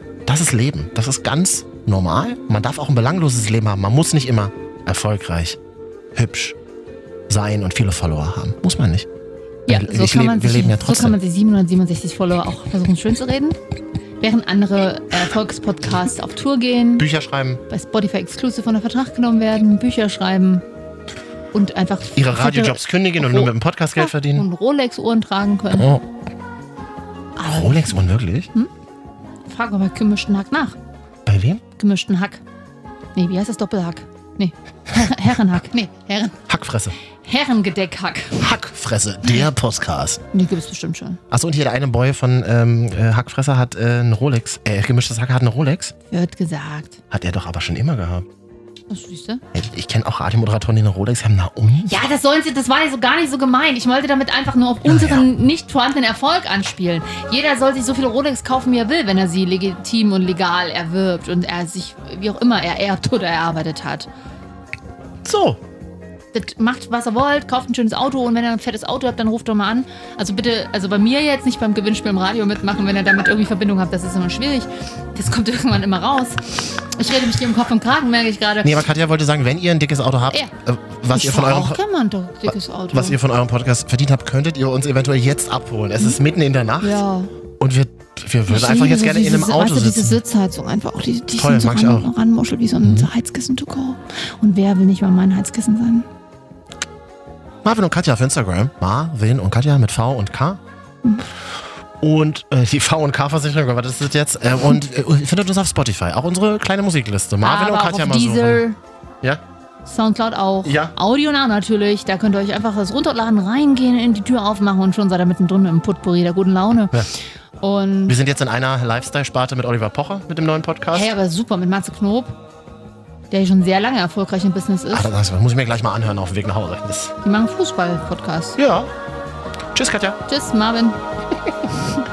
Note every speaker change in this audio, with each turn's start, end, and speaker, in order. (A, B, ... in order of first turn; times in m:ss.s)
0:00.3-0:05.6 A
0:06.2-0:06.6 A
0:07.3-0:09.1 A
0:09.7-0:13.6 B
0:09.7-0:11.2 A
0:14.2-0:17.1 B
0:17.0-0:17.6 A
0:17.7-0:20.6 B
0:21.5-0:25.9 B
0:22.2-0:24.5 A
0:25.7-0:26.0 A
0:27.4-0:28.0 B
0:27.4-0:28.5 A
0:29.5-0:30.8 B
0:31.3-0:31.6 A
0:31.8-0:32.4 B
0:33.2-0:36.4 B
0:36.5-0:37.0 A
0:37.2-0:38.5 B
0:38.4-0:40.2 A
0:40.3-0:41.2 B
0:41.3-0:45.9 A
0:46.1-0:47.0 B
0:47.1-0:48.3 A
0:48.9-0:49.4 B
0:49.5-0:51.9 A
0:51.8-1:04.1 B
0:54.9-0:55.3 A
1:05.2-1:05.6 A
1:06.3-1:18.8 B
1:18.6-1:21.8 A
1:21.1-1:23.2 B
1:22.9-1:27.0 A
1:26.8-1:27.3 B
1:27.6-1:30.2 A
1:28.5-1:36.1 B
1:31.4-1:32.1 A
1:32.8-1:33.1 A
1:37.6-1:40.6 A
1:42.0-1:48.6 A
1:47.4-1:48.8 B
1:49.8-1:57.1 B
1:50.6-1:51.0 A
1:57.6-1:58.2 B
1:58.1-2:01.1 A
2:00.9-2:02.4 B
2:03.3-2:05.1 B
2:04.9-2:07.1 A
2:07.2-2:08.6 B
2:08.6-2:08.9 A
2:09.8-2:10.2 A
2:10.3-2:11.0 B